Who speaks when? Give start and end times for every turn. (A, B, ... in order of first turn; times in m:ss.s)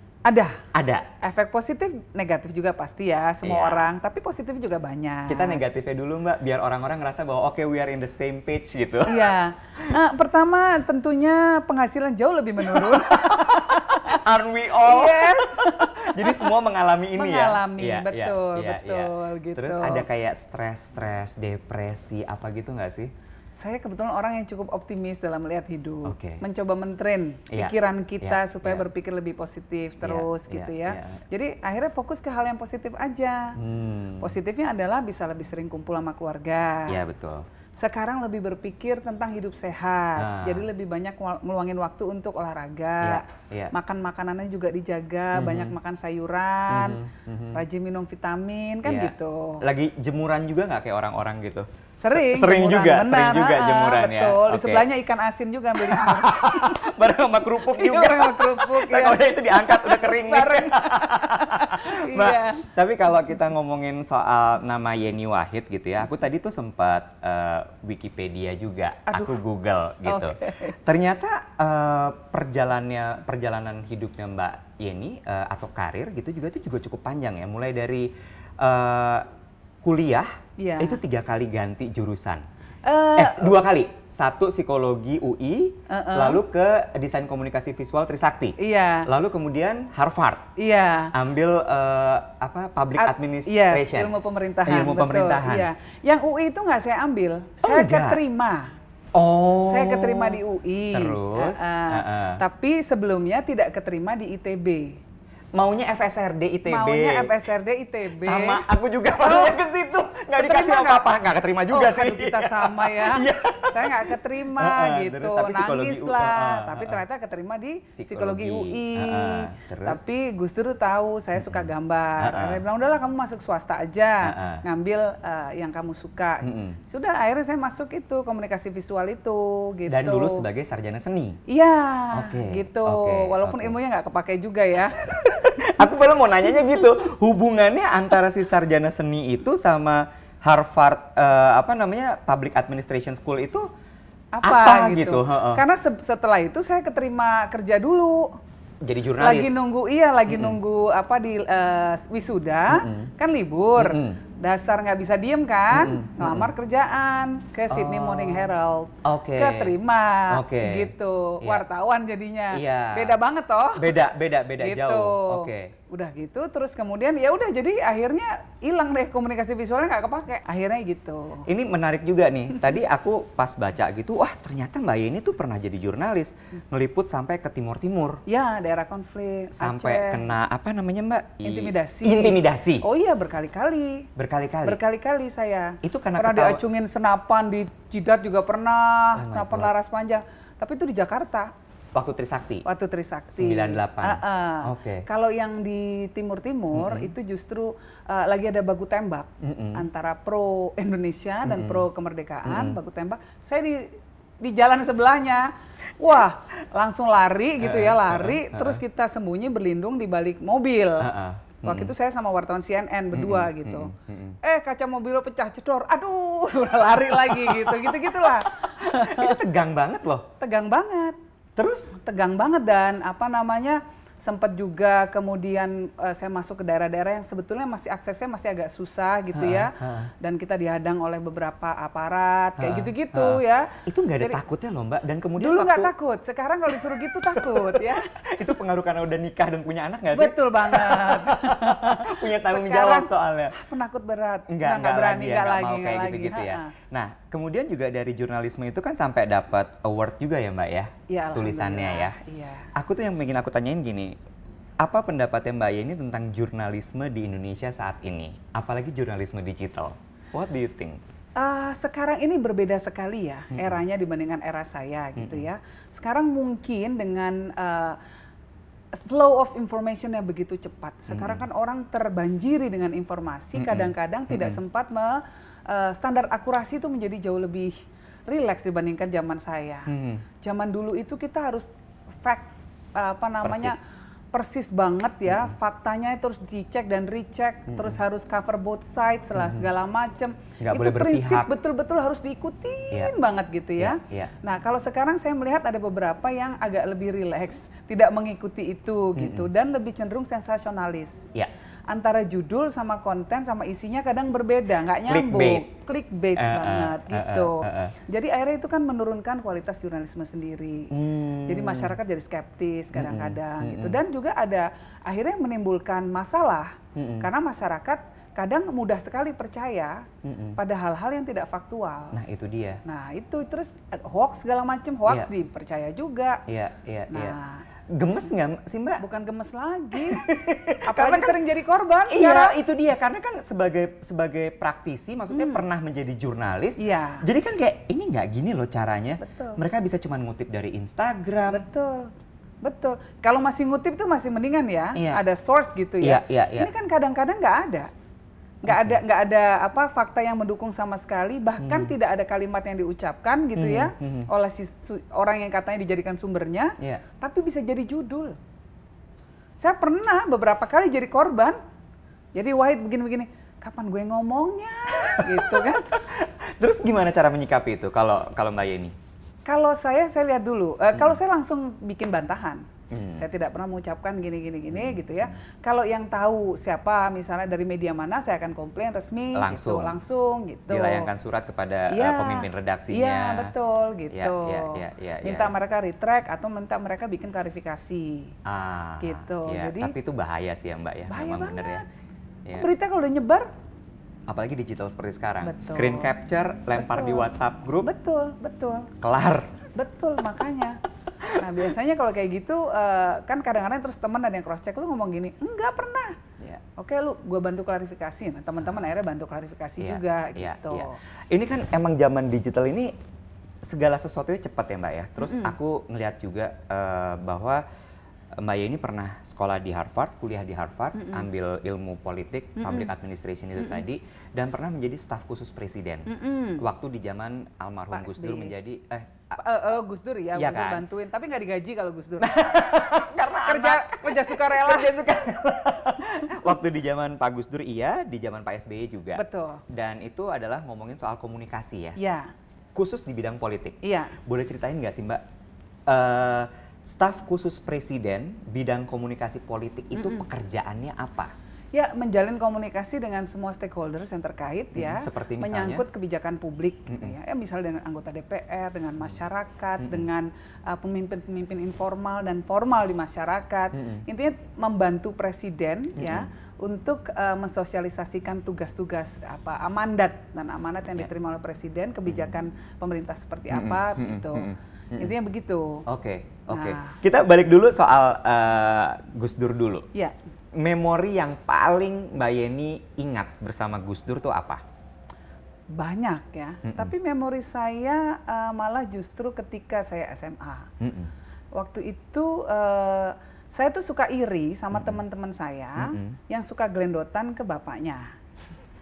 0:00.2-0:00.6 A
0:00.7-0:01.1 B
0:01.2-0:05.6 A
0:03.4-0:03.9 B
0:05.3-0:10.0 B
0:09.1-0:14.2 A
0:12.6-0:23.1 B
0:14.8-0:16.6 A
0:17.1-0:20.1 A
0:23.5-0:33.6 A
0:26.0-0:26.4 B
0:27.5-0:28.9 B
0:30.0-0:31.2 B
0:33.6-0:34.4 B
0:34.2-0:37.0 A
0:36.9-0:37.4 B
0:37.8-0:49.6 A
0:40.2-0:40.7 B
0:43.0-0:43.7 B
0:45.3-0:45.8 B
0:46.7-0:47.6 B
0:48.8-0:54.9 B
0:52.0-0:56.9 A
0:55.8-1:19.3 B
0:57.6-1:02.7 A
1:09.1-1:09.4 A
1:10.0-1:10.8 A
1:19.8-1:22.4 B
1:20.6-1:21.0 A
1:22.8-1:23.6 A
1:23.2-1:30.5 B
1:25.9-1:26.4 A
1:28.6-1:29.1 A
1:30.6-1:31.1 A
1:31.1-1:34.1 B
1:33.0-1:38.7 A
1:34.7-1:35.7 B
1:37.6-1:38.2 B
1:39.1-1:40.4 B
1:39.7-1:45.0 A
1:40.9-1:42.4 B
1:45.6-1:47.4 B
1:46.7-1:48.6 A
1:48.2-1:57.0 B
1:49.2-1:49.6 A
1:50.4-1:51.2 A
1:51.7-2:10.5 A
1:58.0-2:00.0 B
2:01.4-2:02.6 B
2:04.2-2:04.6 B
2:06.4-2:06.8 B
2:09.9-2:11.4 B
2:11.5-2:15.6 A
2:12.1-2:13.8 B
2:15.0-2:23.7 B
2:24.3-2:28.4 A
2:24.4-2:25.6 B
2:28.8-2:29.6 B
2:29.2-2:44.0 A
2:30.3-2:30.6 B
2:32.7-2:33.1 B
2:33.8-2:34.2 B
2:35.7-2:36.5 B
2:37.7-2:39.8 B
2:40.3-2:41.6 B
2:42.5-2:43.2 B
2:43.8-2:45.7 B
2:44.6-2:51.5 A
2:51.5-2:58.2 B
2:58.3-3:00.3 A
2:59.6-3:02.9 B
3:01.4-3:04.1 A
3:04.2-3:04.8 B
3:04.6-3:11.5 A
3:05.8-3:06.6 B
3:09.2-3:09.7 B
3:11.9-3:12.6 B
3:12.6-3:31.1 A
3:13.3-3:15.1 B
3:16.7-3:17.1 B
3:19.4-3:19.9 B
3:21.4-3:21.9 B
3:22.4-3:22.8 B
3:27.6-3:28.8 B
3:31.0-3:31.9 B
3:31.6-3:39.4 A
3:33.1-3:34.4 B
3:36.8-3:40.3 B
3:40.4-3:41.2 A
3:41.6-3:41.9 B
3:41.9-3:54.4 A
3:49.3-3:50.1 B
3:52.6-3:55.9 B
3:55.4-3:58.2 A
3:56.7-4:03.5 B
4:00.1-4:06.7 A
4:04.5-4:12.2 B
4:11.1-4:12.7 A
4:12.8-4:14.2 B
4:14.8-4:21.0 B
4:21.4-4:28.0 A
4:23.5-4:23.8 B
4:25.2-4:25.5 B
4:29.0-4:37.8 A
4:31.1-4:31.4 B
4:33.6-4:34.6 B
4:38.3-4:41.7 A
4:39.9-4:40.2 B
4:42.2-4:43.8 A
4:43.4-4:43.8 B
4:44.3-5:01.3 A
4:45.3-4:45.5 B
4:47.7-4:48.0 B
4:49.4-4:49.7 B
4:50.6-4:51.5 B
4:53.8-4:54.3 B
4:59.2-4:59.5 B
5:01.9-5:10.9 A
5:05.1-5:05.7 B
5:06.4-5:08.0 B
5:10.9-5:12.0 B
5:11.4-5:22.2 A
5:12.9-5:14.0 B
5:17.0-5:17.3 B
5:20.2-5:20.6 B
5:22.1-5:22.8 B
5:22.8-5:26.4 A
5:26.5-5:27.4 B
5:27.1-5:27.6 A
5:27.9-5:29.0 B
5:29.0-5:30.3 A
5:30.0-5:31.4 B
5:30.9-5:32.6 A
5:32.1-5:41.6 B
5:35.3-5:35.6 A
5:36.8-5:37.2 A
5:39.2-5:39.6 A
5:41.5-5:42.1 A
5:42.6-5:47.9 A
5:45.0-5:45.2 B
5:46.0-5:46.7 B
5:48.6-5:58.4 A
5:48.7-5:49.0 B
5:51.6-5:51.9 B
5:53.6-5:54.3 B
5:59.6-6:01.6 A
6:02.4-6:06.0 A
6:05.0-6:09.0 B
6:09.4-6:21.1 A
6:12.9-6:13.3 B
6:14.7-6:15.3 B
6:19.3-6:20.0 B
6:20.7-6:23.5 B
6:21.9-6:28.4 A
6:24.1-6:25.5 B
6:28.4-6:31.8 B
6:29.0-6:29.9 A
6:31.1-6:31.8 A
6:32.6-6:33.5 A
6:34.3-6:37.9 B
6:35.4-6:36.1 A
6:36.7-6:38.9 A
6:39.0-6:39.5 B
6:39.8-6:40.8 A
6:41.4-6:46.2 A
6:46.8-6:51.0 A
6:48.6-6:48.9 B
6:49.8-6:52.9 B
6:53.6-6:57.6 B
6:55.2-6:55.6 A
6:58.4-7:09.4 B
7:00.9-7:01.3 A
7:02.6-7:02.9 A
7:06.1-7:06.6 A
7:07.9-7:08.5 A
7:09.4-7:15.0 A
7:10.4-7:10.9 B
7:12.2-7:22.0 B
7:19.2-7:19.6 A
7:22.0-7:22.3 A
7:22.8-7:25.2 B
7:23.8-7:24.2 A
7:25.9-7:31.3 B
7:30.0-7:30.3 A
7:31.7-7:55.8 A
7:34.8-7:35.8 B
7:36.9-7:37.2 B
7:39.8-7:40.1 B
7:43.7-7:44.0 B
7:46.0-7:46.3 B
7:52.1-7:52.4 B
7:53.5-7:55.1 B
7:55.9-7:59.9 B
7:56.5-7:57.0 A
8:00.6-8:04.6 B
8:05.7-8:10.7 A
8:06.6-8:06.9 B
8:10.8-8:11.1 B
8:11.6-8:18.1 A
8:14.7-8:15.0 B
8:15.8-8:16.2 B